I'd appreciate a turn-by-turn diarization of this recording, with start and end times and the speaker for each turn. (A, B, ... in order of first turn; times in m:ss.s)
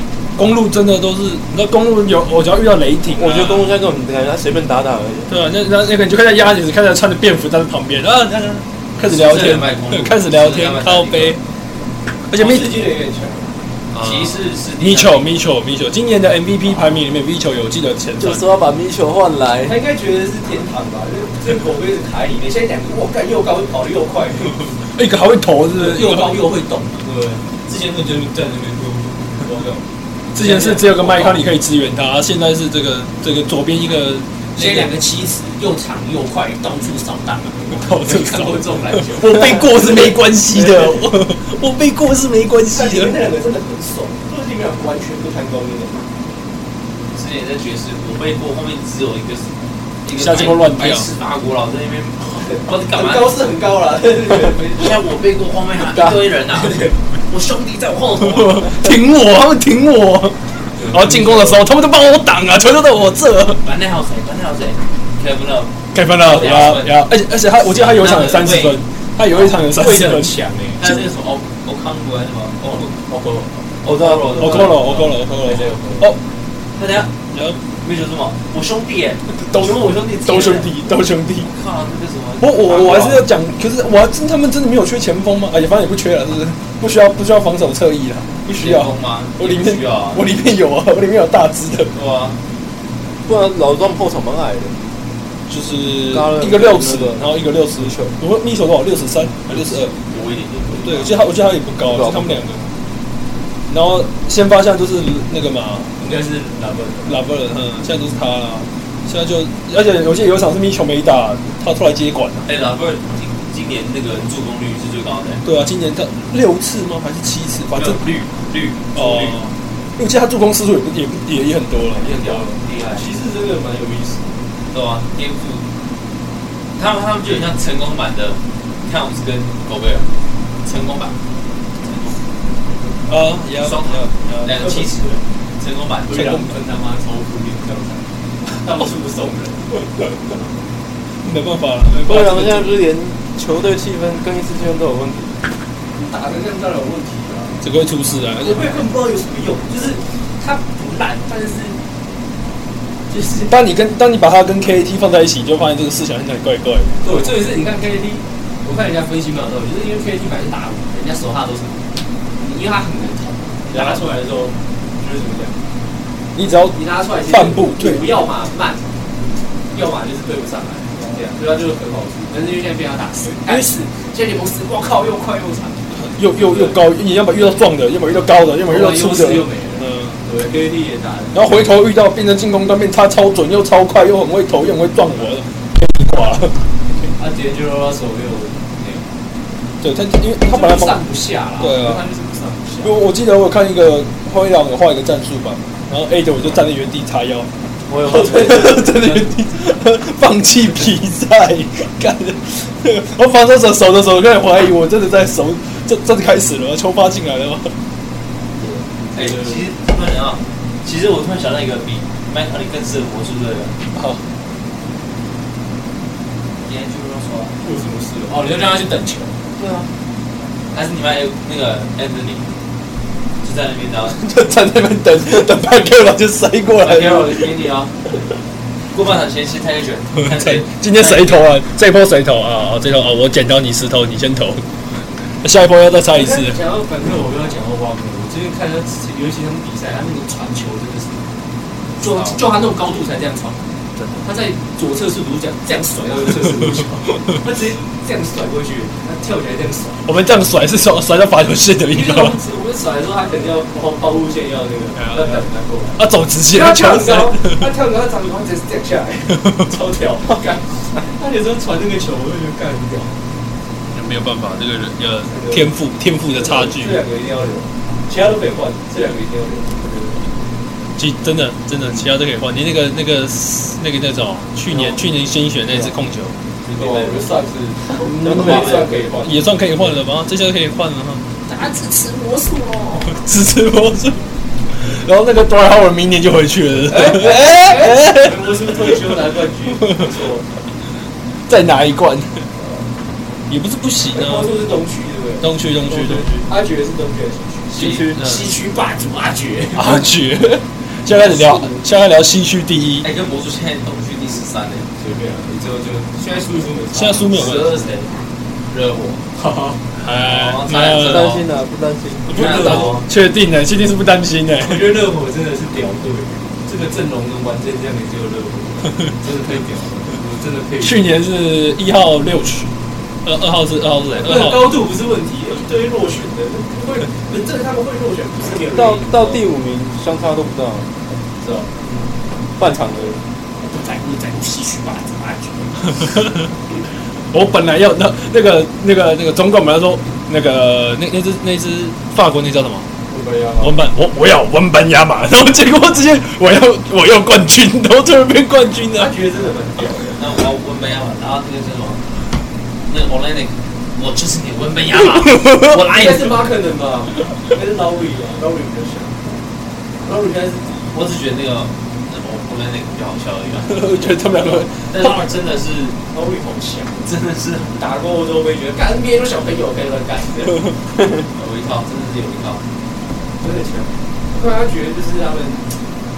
0:00.4-0:03.6 A
0:03.1-0:05.3 B
0:05.3-0:11.4 A
0:09.0-0:11.4 C
0:12.3-0:12.8 A
0:12.3-0:13.5 D
0:13.9-0:15.3 C
0:14.0-0:18.4 A
0:18.2-0:19.8 B
0:19.6-0:24.7 D
0:24.9-0:26.4 A
0:25.7-0:29.8 D
0:30.3-0:34.9 A
0:30.4-0:31.4 D
0:34.6-0:41.0 D
0:37.7-0:43.2 A
0:42.7-0:46.0 D
0:47.1-0:49.5 C
0:50.0-0:53.3 C
0:50.2-0:51.1 A
0:52.3-0:55.0 D
0:54.8-0:58.9 C
0:56.0-0:57.0 D
0:58.2-1:03.6 A
1:00.7-1:01.6 D
1:03.6-1:06.9 C
1:05.9-1:10.4 A
1:06.3-1:06.8 D
1:07.6-1:08.8 C
1:09.4-1:10.9 D
1:10.8-1:12.9 C
1:12.8-1:13.5 D
1:13.8-1:15.3 C
1:13.9-1:14.3 B
1:14.3-1:16.2 A
1:15.2-1:16.1 D
1:16.8-1:17.2 C
1:17.3-1:17.6 A
1:17.8-1:20.7 C
1:19.4-1:21.5 A
1:21.5-1:23.3 C
1:22.4-1:31.9 A
1:28.6-1:30.2 C
1:31.9-1:32.4 C
1:33.3-1:34.8 B
1:35.5-1:39.9 A
1:36.1-1:37.3 B
1:39.5-1:41.1 C
1:40.8-1:42.7 A
1:41.8-1:42.4 B
1:43.7-1:46.0 A
1:46.0-1:47.2 D
1:47.0-1:52.5 A
1:52.4-1:55.4 C
1:55.4-1:58.0 A
1:57.8-1:59.4 C
1:58.9-2:02.2 A
2:01.9-2:03.1 C
2:02.2-2:04.3 D
2:04.7-2:05.6 C
2:06.8-2:10.1 C
2:10.6-2:11.2 C
2:11.8-2:12.2 C
2:13.1-2:14.6 A
2:13.6-2:16.3 C
2:14.6-2:15.2 D
2:16.1-2:18.0 D
2:16.1-2:16.5 A
2:18.6-2:20.5 D
2:21.2-2:22.8 A
2:22.1-2:25.4 B
2:26.0-2:27.6 D
2:27.6-2:28.8 A
2:28.4-2:31.8 D
2:33.1-2:33.5 D
2:33.5-2:37.4 A
2:37.0-2:41.8 D
2:42.4-2:45.6 D
2:43.7-2:44.0 A
2:46.4-2:48.0 A
2:46.7-2:48.9 D
2:49.7-2:56.8 D
2:53.4-2:53.7 A
2:56.0-3:00.2 A
2:58.7-3:01.4 D
3:01.3-3:06.6 A
3:07.2-3:09.1 D
3:09.8-3:11.0 A
3:10.4-3:12.9 D
3:11.6-3:12.0 A
3:12.8-3:17.5 A
3:18.0-3:19.3 D
3:18.1-3:27.7 A
3:28.6-3:29.6 D
3:29.2-3:33.8 C
3:34.0-3:34.2 A
3:36.6-3:37.6 C
3:37.6-3:39.4 D
3:39.6-3:39.9 C
3:40.7-3:42.5 C
3:43.4-3:44.2 C
3:44.2-3:47.5 A
3:46.8-3:48.0 C
3:48.9-3:51.5 C
3:50.2-3:54.6 A
3:55.4-3:56.6 A
3:56.1-4:01.3 D
4:02.0-4:02.4 C
4:02.0-4:03.6 D
4:04.2-4:10.1 D
4:10.1-4:12.4 A
4:11.9-4:23.2 D
4:15.0-4:15.4 A
4:16.0-4:17.6 A
4:19.4-4:19.7 A
4:23.9-4:27.0 A
4:25.3-4:25.7 D
4:26.3-4:30.2 D
4:31.0-4:36.4 A
4:34.7-4:35.0 D
4:36.6-4:37.2 C
4:36.7-4:39.4 D
4:38.0-4:41.2 A
4:38.3-4:39.0 C
4:41.5-4:43.2 D
4:43.1-4:48.8 A
4:46.9-4:50.5 D
4:51.5-4:52.5 A
4:53.5-4:54.5 A
4:54.1-5:00.0 D
4:55.4-4:56.3 A
4:57.7-4:58.2 B
4:57.8-4:58.2 C
4:59.8-5:03.1 A
5:03.0-5:04.9 C
5:05.0-5:07.8 D
5:06.9-5:07.7 A
5:07.3-5:08.1 C
5:08.7-5:09.2 C
5:09.4-5:09.8 D
5:10.0-5:11.4 A
5:10.2-5:11.4 C
5:11.0-5:12.4 B
5:12.3-5:13.1 D
5:12.3-5:13.1 C
5:12.3-5:15.0 A
5:14.6-5:21.1 D
5:20.8-5:22.7 A
5:23.2-5:24.8 A
5:24.2-5:29.4 D
5:28.7-5:30.9 B
5:31.4-5:31.7 D
5:32.6-5:33.2 B
5:33.6-5:36.1 D
5:37.3-5:42.9 A
5:43.1-5:43.8 D
5:43.6-5:49.1 A
5:48.9-5:50.2 D
5:50.2-5:52.0 C
5:52.9-5:56.3 C
5:55.0-5:56.2 A
5:55.7-5:59.2 D
6:00.0-6:00.9 D
6:00.9-6:06.0 C
6:03.6-6:05.3 A
6:06.1-6:07.1 D
6:07.0-6:07.8 C
6:07.8-6:10.6 D
6:11.3-6:12.6 C
6:13.4-6:15.7 D